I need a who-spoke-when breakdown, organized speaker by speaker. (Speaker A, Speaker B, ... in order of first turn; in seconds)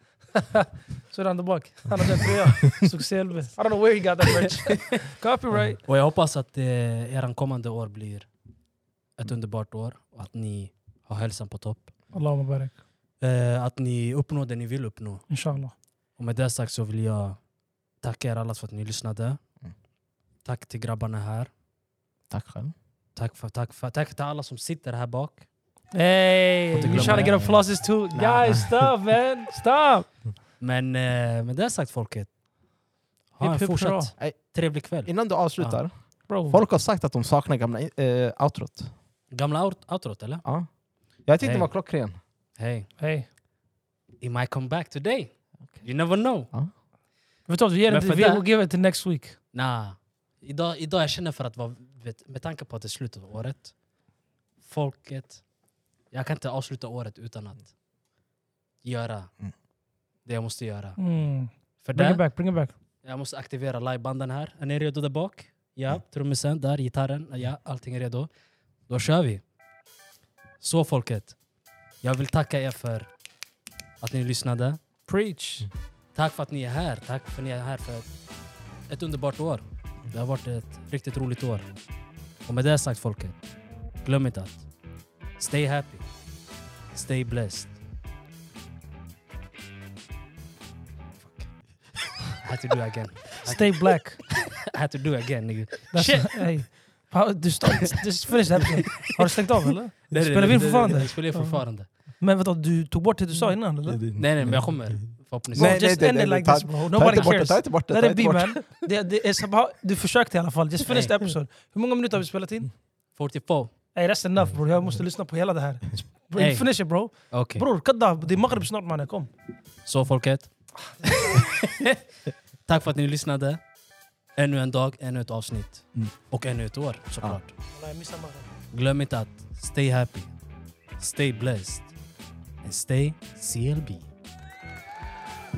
Speaker A: 0.4-5.8, 12.1-12.8, 15.3-15.8, 25.9-30.3, 33.4-34.1, 36.3-36.6, 43.0-43.3, 47.5-49.4, 61.0-62.7, 75.0-75.7, 93.4-94.3, 95.9-104.1, 105.5-112.7, 113.9-119.3, 121.0-121.4, 127.7-128.5
Speaker B: 5.8-8.3, 9.2-11.9, 13.2-15.2, 16.1-17.4, 18.0-19.4, 20.4-21.5, 23.1-25.5, 26.7-28.6, 30.6-32.3, 33.3-35.8, 39.3-40.4, 41.4-41.8, 42.5-42.9, 44.2-46.5, 47.9-48.5, 49.5-53.8, 54.6-55.5, 56.1-57.8, 58.8-59.4, 60.2-61.0, 61.8-62.3, 63.0-68.3, 68.9-69.4, 70.6-71.4, 72.0-73.1, 74.0-74.8, 76.1-78.2, 78.9-81.8, 82.4-84.7, 85.3-86.1, 86.9-87.8, 91.2-96.5, 100.1-101.9, 104.2-105.8, 110.8-111.2, 113.1-113.7, 116.3-117.7, 119.8-122.1, 122.7-123.6, 124.3-127.5, 128.7-130.3, 131.0-131.9, 132.6-134.1
Speaker C: 22.3-22.7, 26.8-27.5, 28.1-28.7, 34.2-38.9, 40.4-42.2, 45.6-46.7, 103.4-108.7